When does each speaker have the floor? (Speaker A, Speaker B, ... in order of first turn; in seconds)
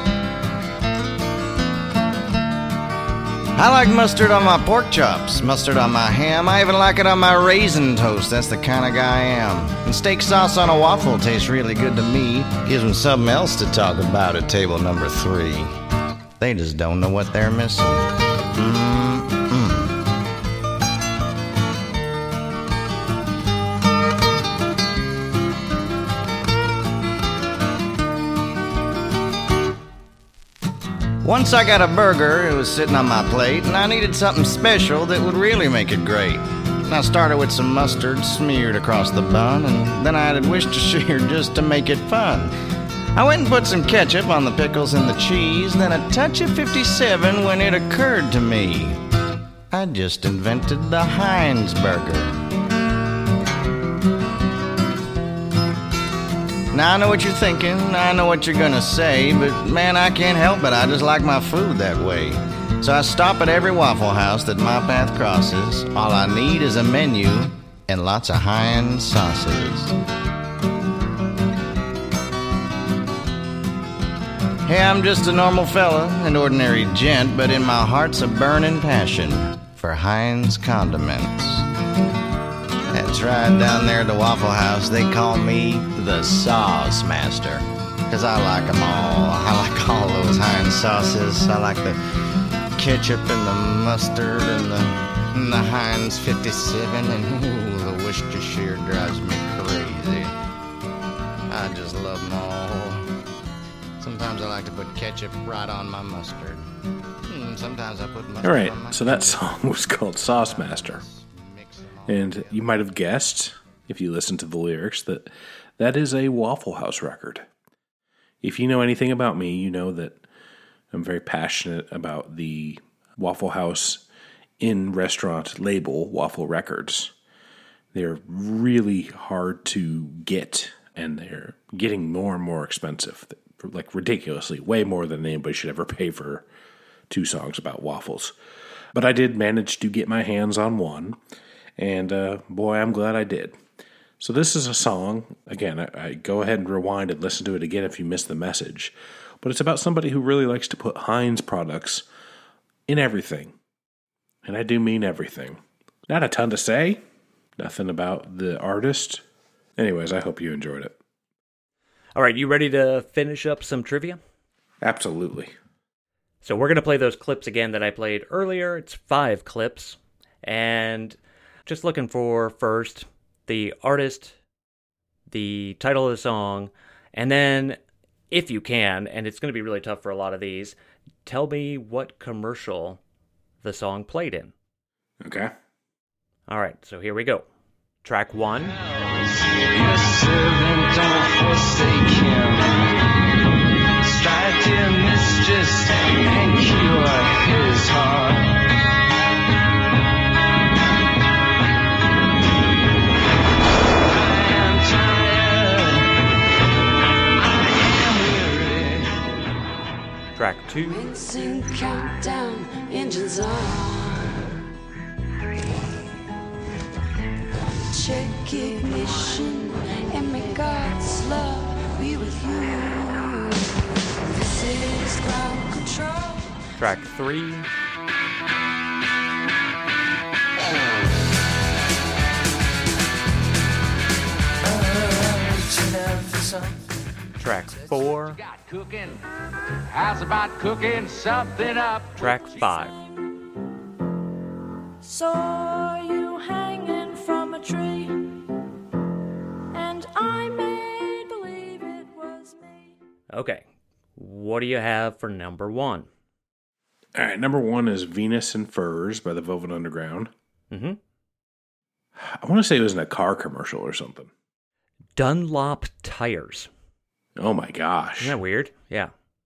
Speaker A: 3.5-15.7, 16.4-19.9, 31.2-42.5, 43.1-49.0, 49.7-52.3, 56.7-69.9, 74.7-81.6, 82.9-92.0, 92.8-100.3, 101.5-103.0, 104.0-106.6, 107.3-109.4, 110.2-112.9
Speaker B: 108.4-111.0, 112.1-117.5, 118.4-120.2, 120.9-124.0, 124.6-127.1, 127.9-136.4, 137.1-138.3, 138.9-141.2, 141.8-143.6, 144.2-152.0, 152.9-153.5, 154.4-157.0, 157.6-159.2, 159.8-161.0, 164.8-165.5, 185.2-185.5, 257.1-260.3, 262.2-264.3, 267.4-268.4
Speaker C: 162.2-164.2, 166.4-174.3, 175.3-177.8, 178.3-183.0, 183.6-184.5, 186.5-187.4, 188.0-188.8, 210.3-211.0, 226.8-227.7, 237.4-238.4, 242.2-242.9, 253.3-253.6, 254.2-256.1, 260.7-261.0, 265.2-266.7, 268.2-269.1
Speaker D: 189.1-192.9, 194.0-198.5, 204.1-206.1, 207.4-209.2, 234.6-236.8, 238.3-239.2, 239.9-242.2
Speaker E: 210.9-214.3, 217.9-223.6, 224.2-226.5, 242.6-243.0, 245.0-248.2, 249.7-252.9